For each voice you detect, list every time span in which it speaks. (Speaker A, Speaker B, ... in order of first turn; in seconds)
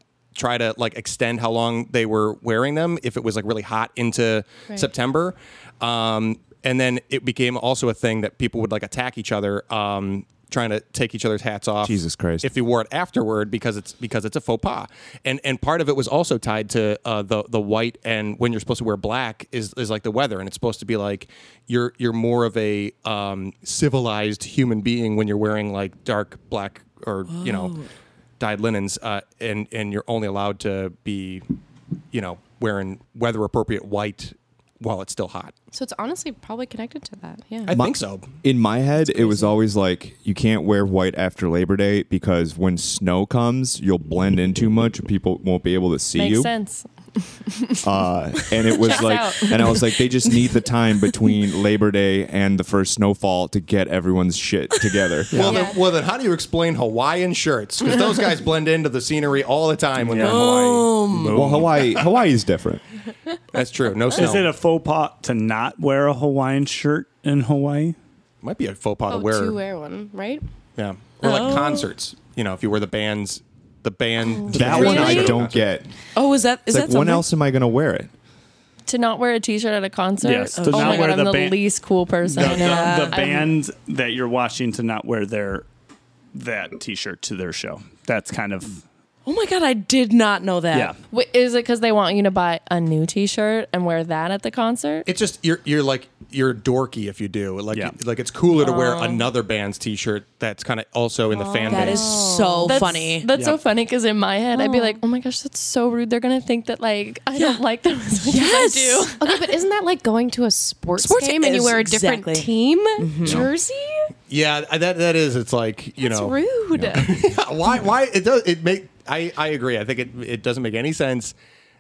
Speaker A: 0.3-27.8, 28.4-31.5, 32.1-35.5, 37.7-38.4, 55.3-61.5, 63.5-64.5, 68.4-69.6, 70.8-75.7, 95.1-102.2, 114.3-121.3
Speaker B: 11.8-12.5, 37.7-46.5, 47.8-55.3, 61.3-62.8, 74.5-75.9, 76.7-78.1
Speaker C: 27.3-27.9, 60.2-61.5, 71.2-71.9, 74.7-75.1, 76.2-77.2, 80.5-81.2, 82.4-83.5, 89.3-91.0, 101.7-103.3, 107.3-107.6, 108.2-109.1, 111.0-113.5
Speaker D: 35.7-37.7, 39.0-39.5, 55.4-55.8, 69.1-70.4, 101.7-102.9, 104.5-105.0, 109.2-114.1, 116.0-117.2
Speaker E: 46.2-47.8, 48.7-49.8, 74.5-75.4, 78.9-83.5, 91.1-95.1, 98.7-99.2, 101.3-102.0, 102.6-109.3
Speaker F: 55.3-55.6, 60.0-60.5, 61.1-61.8, 64.1-68.0, 80.2-81.6, 82.3-85.7, 86.3-88.8, 103.3-103.6